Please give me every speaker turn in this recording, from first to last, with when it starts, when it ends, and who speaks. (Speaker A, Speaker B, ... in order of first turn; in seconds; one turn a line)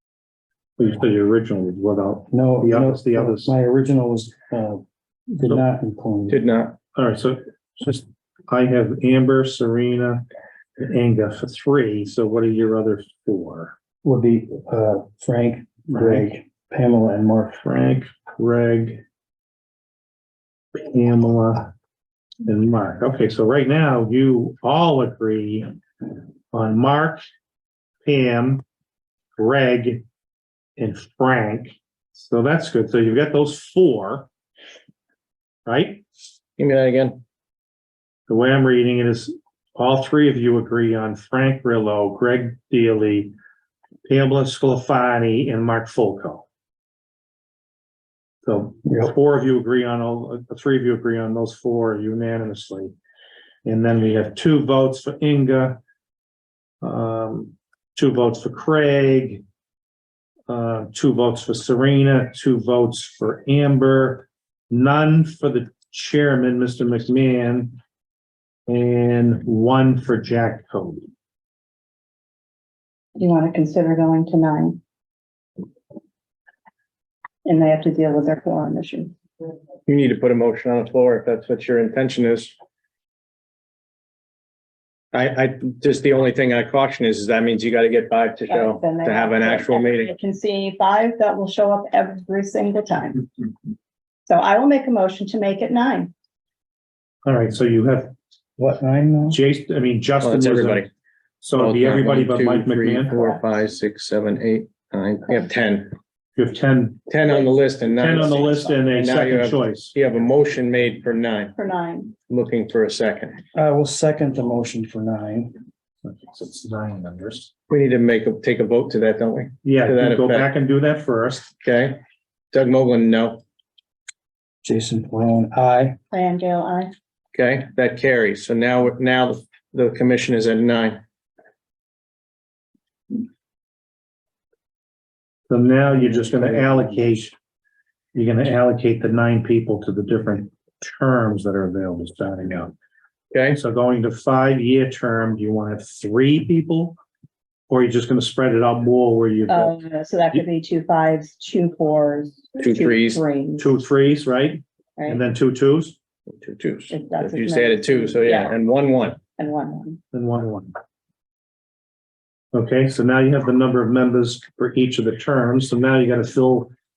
Speaker A: 0.8-3.5
Speaker B: 2.3-6.4
Speaker C: 6.3-6.8
Speaker A: 7.0-10.2
Speaker A: 10.8-13.8
Speaker B: 14.0-17.6
Speaker A: 15.9-16.3
Speaker A: 17.6-19.0
Speaker A: 20.7-21.7
Speaker A: 22.4-25.7
Speaker A: 26.5-27.2
Speaker A: 28.0-28.6
Speaker A: 29.4-30.0
Speaker A: 30.8-34.3
Speaker A: 35.7-36.0
Speaker C: 36.6-37.2
Speaker A: 38.3-43.3
Speaker A: 44.1-46.5
Speaker A: 48.4-52.9
Speaker A: 53.6-55.8
Speaker A: 56.8-59.4
Speaker A: 60.5-67.8
Speaker A: 68.7-71.0
Speaker D: 73.2-74.8
Speaker D: 77.5-79.2
Speaker C: 79.9-82.5
Speaker C: 85.1-90.1
Speaker D: 88.5-93.3
Speaker D: 94.3-96.1
Speaker A: 97.2-98.1
Speaker B: 98.6-99.4
Speaker A: 99.3-100.9
Speaker C: 100.2-100.9
Speaker A: 101.4-103.2
Speaker C: 101.5-106.0
Speaker D: 103.1-103.4
Speaker A: 106.4-107.1
Speaker C: 107.1-111.5
Speaker A: 107.9-110.0
Speaker D: 108.0-108.8
Speaker D: 111.6-112.1
Speaker C: 112.3-113.4
Speaker B: 113.5-115.5
Speaker A: 116.0-117.5
Speaker C: 117.7-120.5
Speaker A: 119.6-121.5
Speaker C: 121.6-122.0
Speaker C: 122.5-123.4
Speaker B: 124.6-126.0
Speaker D: 126.1-126.9
Speaker C: 127.3-131.0
Speaker A: 135.5-137.3
Speaker A: 138.1-142.7
Speaker C: 143.3-143.6
Speaker A: 143.5-147.0
Speaker A: 147.7-149.8
Speaker D: 149.5-153.8
Speaker C: 152.6-153.2
Speaker A: 153.6-156.0
Speaker D: 155.0-155.2
Speaker C: 156.4-159.2
Speaker D: 156.9-158.6
Speaker D: 159.4-160.0
Speaker A: 160.1-160.7
Speaker A: 162.5-166.7